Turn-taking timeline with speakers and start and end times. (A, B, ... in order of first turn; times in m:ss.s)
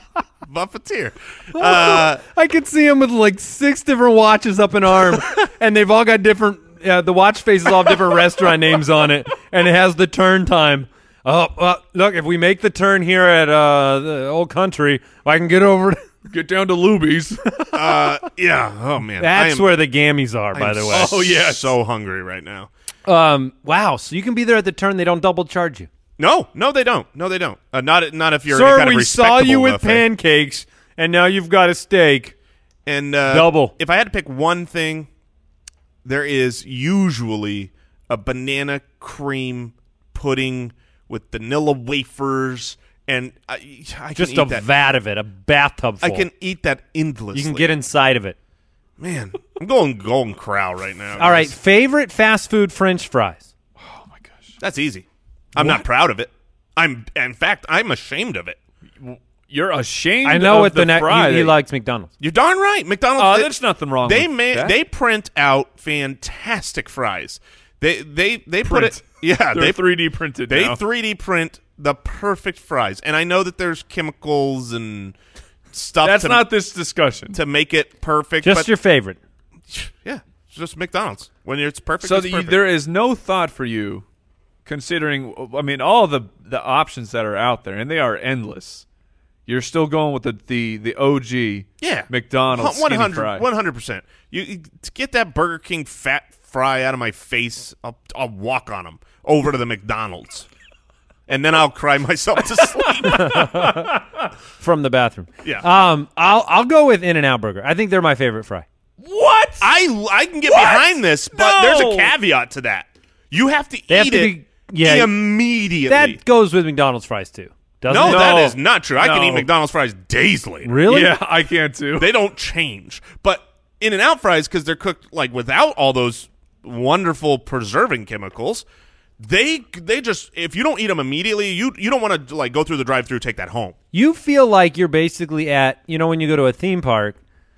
0:00.4-0:02.2 A
0:01.5-0:16.0 B
0:16.3-0:17.4 C
0:17.7-0:19.7 A
0:19.2-0:21.1 B
0:20.5-0:22.7 A
0:20.9-0:21.7 C
0:23.1-0:25.9 B
0:26.2-0:30.0 A
0:28.5-0:32.3 B
0:32.9-0:35.1 A
0:33.3-0:33.7 B
0:36.0-0:44.6 A
0:44.2-0:46.3 B
0:46.0-0:47.7 A
0:47.3-0:48.4 B
0:49.0-0:51.5 A
0:51.2-0:53.5 B
0:53.8-0:54.5 C
0:54.6-0:58.6 A
0:55.6-0:55.8 C
0:59.0-1:01.5 C
1:00.2-1:02.1 B
1:02.2-1:09.8 A
1:03.2-1:04.8 C
1:08.6-1:10.8 C
1:10.5-1:15.2 A
1:15.7-1:16.5 A
1:16.0-1:17.4 C
1:17.3-1:18.7 A
1:18.4-1:19.2 B
1:19.7-1:22.6 A
1:22.0-1:24.0 C
1:24.7-1:28.8 C
1:29.5-1:33.4 C
1:31.8-1:40.5 A
1:41.3-1:43.4 A
1:42.6-1:44.0 C
1:43.0-1:43.9 B
1:44.6-1:48.6 B
1:49.0-1:49.7 C
1:49.6-1:56.2 A
1:50.5-1:52.1 C
1:53.9-1:55.1 B
1:55.9-1:58.4 B
1:57.9-2:00.7 A
1:58.0-1:59.5 C
2:00.6-2:01.1 B
2:00.9-2:02.1 C
2:02.0-2:08.7 A
2:09.2-2:13.8 A
2:13.9-2:17.2 B